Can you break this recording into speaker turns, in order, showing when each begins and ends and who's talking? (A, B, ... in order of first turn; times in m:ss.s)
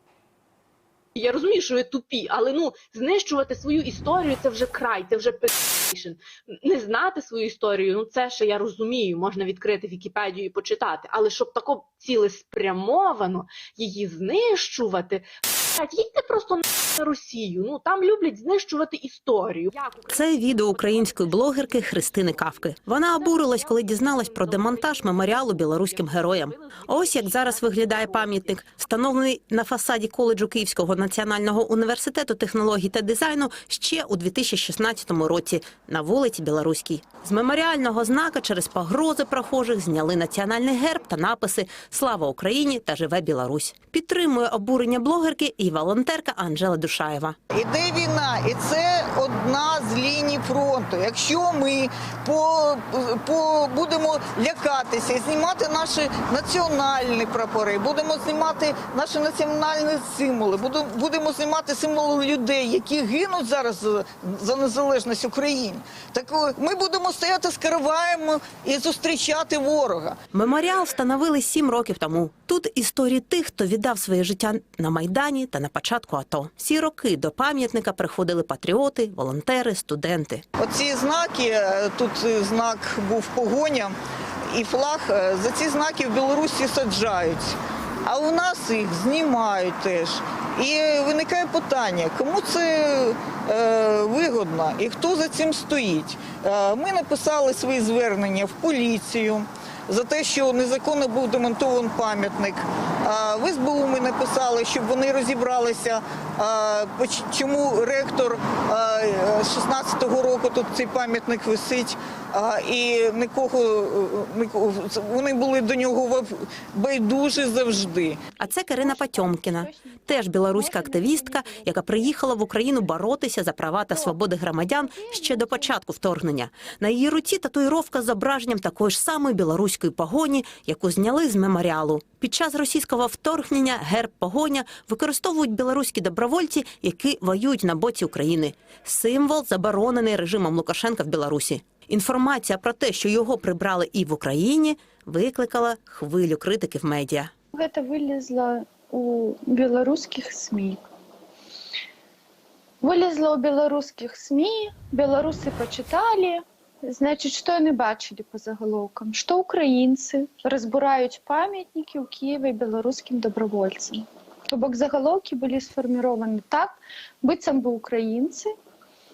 0:01.2-0:22.2 A
0:20.1-0:47.4 B
0:23.1-0:28.8 A
0:47.5-1:10.2 C
1:10.3-1:20.4 B
1:20.6-1:23.9 C
1:24.5-1:58.2 C
1:58.4-2:27.3 B
1:58.4-2:02.1 D
2:04.8-2:05.7 D
2:27.5-2:30.8 D
2:32.8-2:48.5 D